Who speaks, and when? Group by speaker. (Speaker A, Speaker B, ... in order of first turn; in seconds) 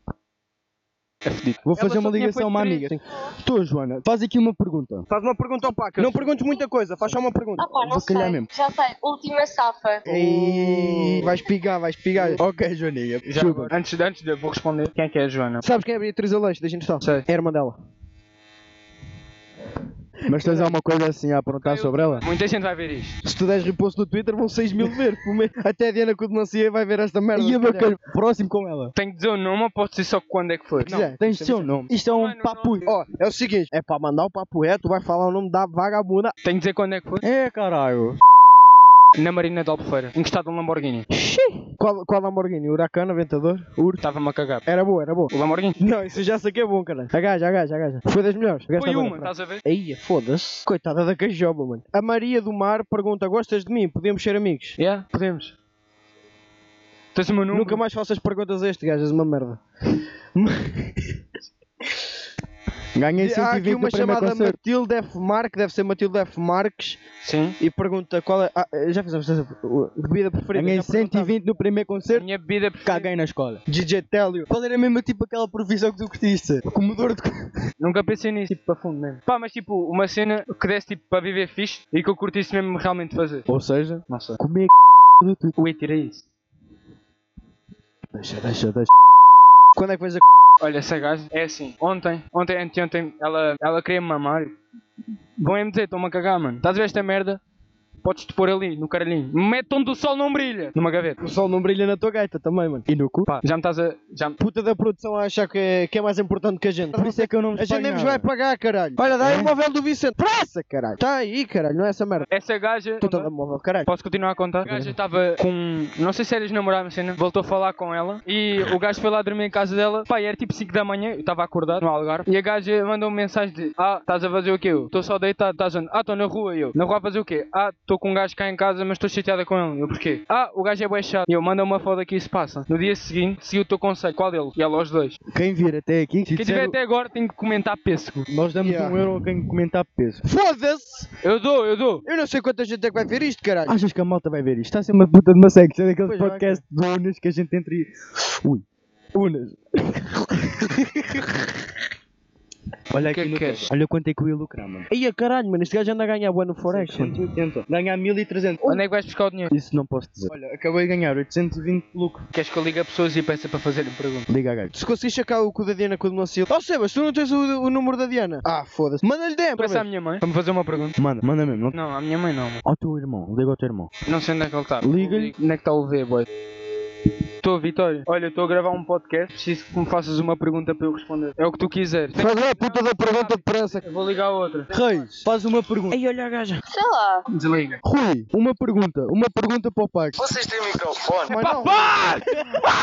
Speaker A: 1.2-2.9, 6.0-6.3, 13.3-15.6, 21.6-23.2, 28.9-30.9, 32.0-32.9, 36.4-37.2, 39.1-41.0, 44.0-44.6, 45.3-45.8, 48.8-49.6, 54.8-55.5, 57.1-57.8, 67.2-67.6, 72.1-73.1, 77.8-83.5, 84.1-84.4, 85.6-86.2, 90.6-94.6, 95.4-97.4, 98.0-101.2, 103.3-104.4, 112.3-113.3, 113.9-135.2, 136.3-138.2, 141.2-142.0, 153.0-153.7, 158.7-159.5, 162.3-164.3, 169.6-171.0, 171.7-172.6, 174.0-176.2, 177.4-184.7, 187.3-187.8, 191.2-192.6
Speaker B: 1.6-5.0, 7.8-8.5, 10.0-11.3, 12.3-13.7, 20.3-22.2, 27.3-28.9, 30.9-32.9, 37.2-38.2, 62.9-64.6, 70.5-72.3, 72.8-73.6, 74.5-77.6, 83.5-85.5, 88.1-88.9, 102.9-103.3, 106.9-108.3, 109.2-109.5, 114.6-115.0, 135.3-136.8, 138.3-140.2, 143.7-148.6, 152.9-154.9, 156.7-158.7, 159.5-162.2, 164.3-164.7, 171.0-171.8, 172.6-173.9, 174.8-175.3, 184.7-186.0, 187.8-190.3
Speaker C: 5.1-7.7, 10.0-12.4, 15.6-17.8, 20.4-20.7, 23.2-27.9, 30.8-31.7, 32.9-36.3, 41.1-44.0, 44.6-54.8, 57.5-59.6, 60.3-61.1, 63.2-67.0, 67.6-71.3, 73.7-74.5, 89.8-90.2, 101.2-102.9, 104.4-112.3, 113.0-113.9, 138.6-139.0, 140.2-141.1, 142.0-143.8, 146.0-146.6, 149.2-150.0, 154.9-157.2, 164.7-169.9, 182.2-183.8, 185.9-186.6, 191.1-192.2
Speaker D: 7.6-10.0, 186.7-187.2